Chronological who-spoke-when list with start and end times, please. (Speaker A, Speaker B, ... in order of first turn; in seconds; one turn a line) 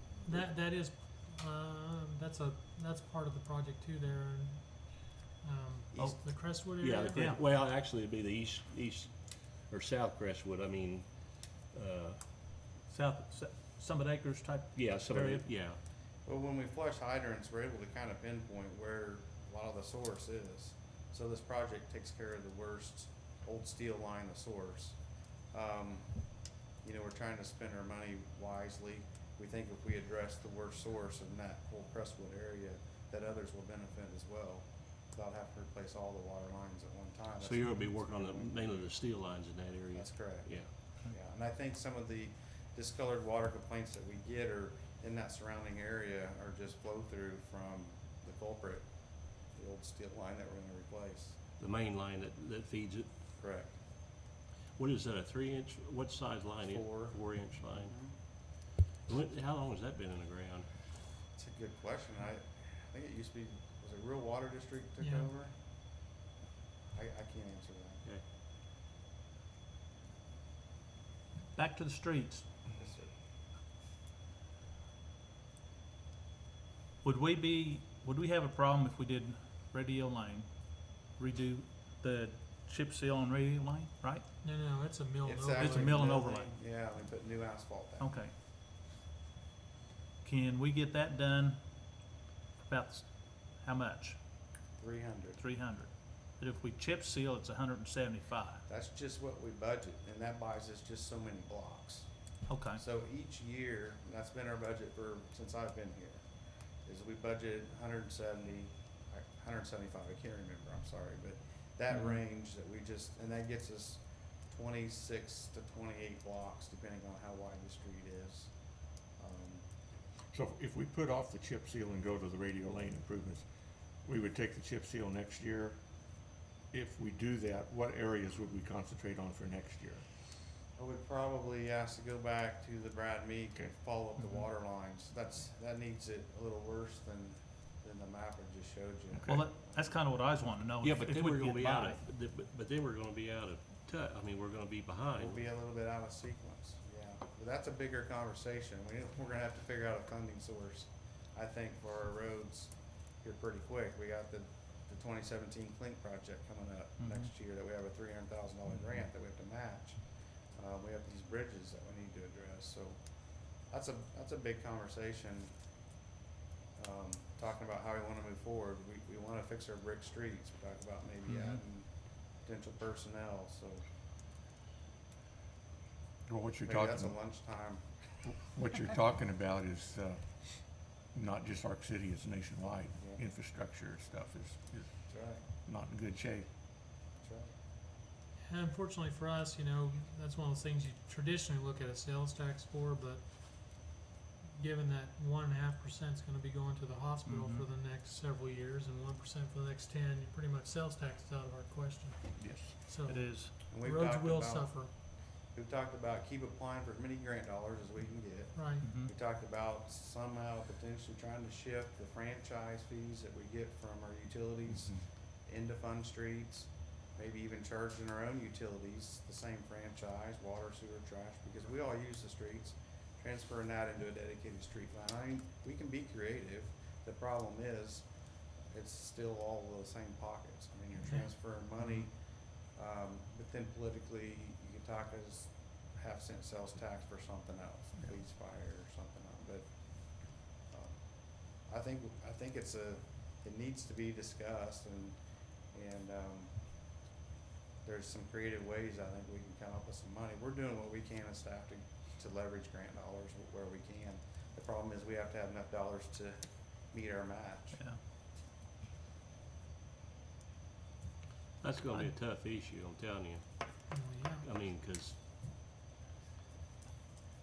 Speaker A: 0.2-7.3
Speaker B: 6.0-6.2
Speaker C: 6.8-12.2
Speaker D: 7.1-7.4
Speaker D: 12.9-15.6
Speaker C: 14.8-15.8
Speaker B: 16.2-25.0
Speaker B: 25.5-39.0
Speaker C: 37.4-40.7
Speaker B: 39.9-51.4
Speaker C: 51.6-53.1
Speaker B: 53.4-53.8
Speaker C: 54.8-58.1
Speaker B: 56.6-58.2
Speaker C: 59.0-60.9
Speaker B: 61.4-65.5
Speaker A: 65.0-65.3
Speaker B: 66.9-68.0
Speaker D: 71.5-72.5
Speaker B: 72.7-73.1
Speaker D: 77.0-84.3
Speaker A: 84.4-86.0
Speaker B: 85.2-88.1
Speaker D: 85.5-86.5
Speaker D: 88.0-88.3
Speaker D: 90.2-91.6
Speaker D: 92.7-94.2
Speaker B: 94.8-95.4
Speaker D: 95.4-98.7
Speaker B: 98.7-106.2
Speaker D: 102.5-102.8
Speaker B: 106.8-118.5
Speaker D: 111.9-112.2
Speaker B: 119.2-119.6
Speaker E: 120.3-123.5
Speaker E: 124.0-125.8
Speaker E: 126.7-130.1
Speaker B: 130.8-140.0
Speaker D: 134.2-134.5
Speaker E: 139.1-139.4
Speaker D: 139.3-142.0
Speaker C: 140.8-145.4
Speaker B: 145.2-160.0
Speaker D: 157.0-157.3
Speaker B: 160.6-163.0
Speaker B: 163.6-165.5
Speaker B: 166.8-173.8
Speaker D: 171.3-171.6
Speaker E: 176.3-177.5
Speaker B: 176.7-177.8
Speaker E: 178.2-186.5
Speaker B: 185.1-185.4
Speaker B: 187.2-187.5
Speaker A: 188.4-194.0
Speaker A: 194.5-204.9
Speaker D: 197.3-197.7
Speaker E: 202.4-202.8
Speaker D: 203.1-203.6
Speaker B: 203.7-204.8
Speaker B: 205.4-228.1
Speaker A: 208.5-208.9
Speaker D: 208.8-209.1
Speaker B: 228.7-232.1
Speaker B: 232.7-245.2
Speaker B: 245.7-246.5
Speaker B: 247.8-256.4
Speaker B: 256.9-257.8
Speaker D: 257.7-258.0
Speaker C: 261.6-263.4
Speaker A: 263.9-264.4
Speaker C: 264.4-265.2